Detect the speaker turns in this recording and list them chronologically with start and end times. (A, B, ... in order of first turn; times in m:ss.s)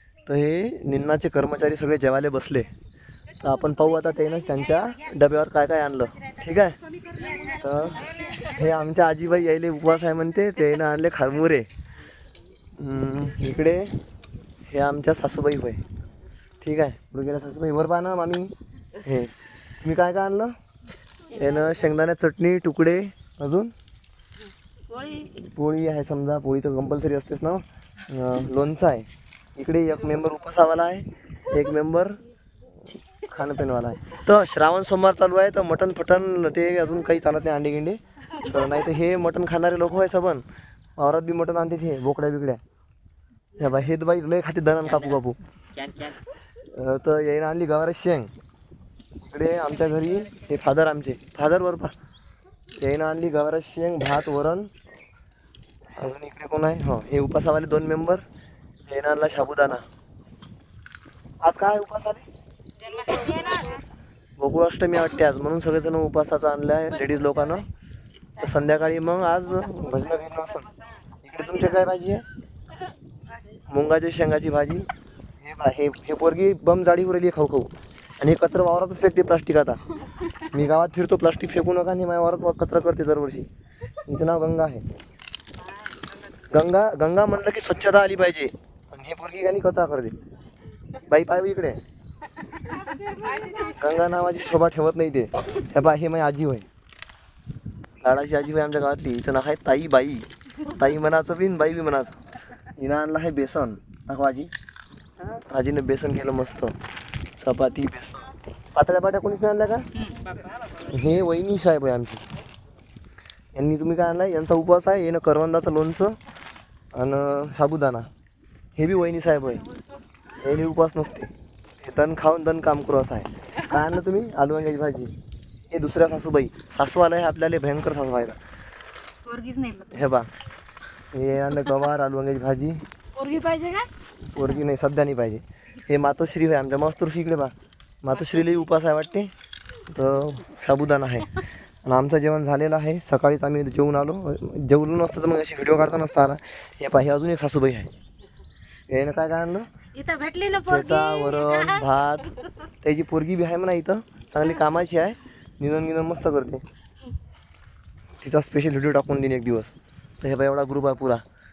0:00.2-0:02.7 A
0:03.4-0:06.8 A
0:07.1-0:07.6 B
0:07.5-0:11.7 A
0:12.8-0:13.9 A
0:14.7-0:15.8 A
0:16.6-0:20.5 A
0:21.3-0:23.7 A
0:24.9-0:25.3 B
0:25.3-0:32.2 A
0:33.2-0:40.4 A
0:41.0-0:42.6 A
0:43.6-0:45.4 A
0:46.7-0:48.3 A
0:49.2-0:51.9 A
0:52.8-0:54.7 A
0:56.0-0:58.2 A
0:58.9-0:59.8 A
1:01.4-1:02.2 A
1:02.9-1:03.8 B
1:04.4-1:07.7 A
1:08.4-1:10.7 A
1:11.2-1:12.2 A
1:13.6-1:14.9 A
1:15.4-1:19.8 A
1:20.5-1:23.5 A
1:24.0-1:24.8 A
1:26.5-1:30.2 A
1:31.1-1:31.8 A
1:32.9-1:33.7 B
1:33.6-1:36.7 A
1:38.0-1:42.2 A
1:42.8-1:44.5 A
1:45.4-1:46.7 A
1:47.4-1:49.9 A
1:50.8-1:52.2 A
1:53.5-1:56.2 A
1:56.9-1:58.1 A
1:58.8-1:59.6 A
2:00.4-2:05.1 A
2:05.7-2:08.4 A
2:09.2-2:10.1 B
2:09.9-2:10.3 A
2:11.1-2:12.8 A
2:13.1-2:13.9 B
2:14.3-2:19.3 A
2:18.2-2:18.5 B
2:19.9-2:27.9 A
2:28.9-2:29.7 A
2:29.9-2:31.9 B
2:30.7-2:36.6 A
2:38.2-2:41.2 A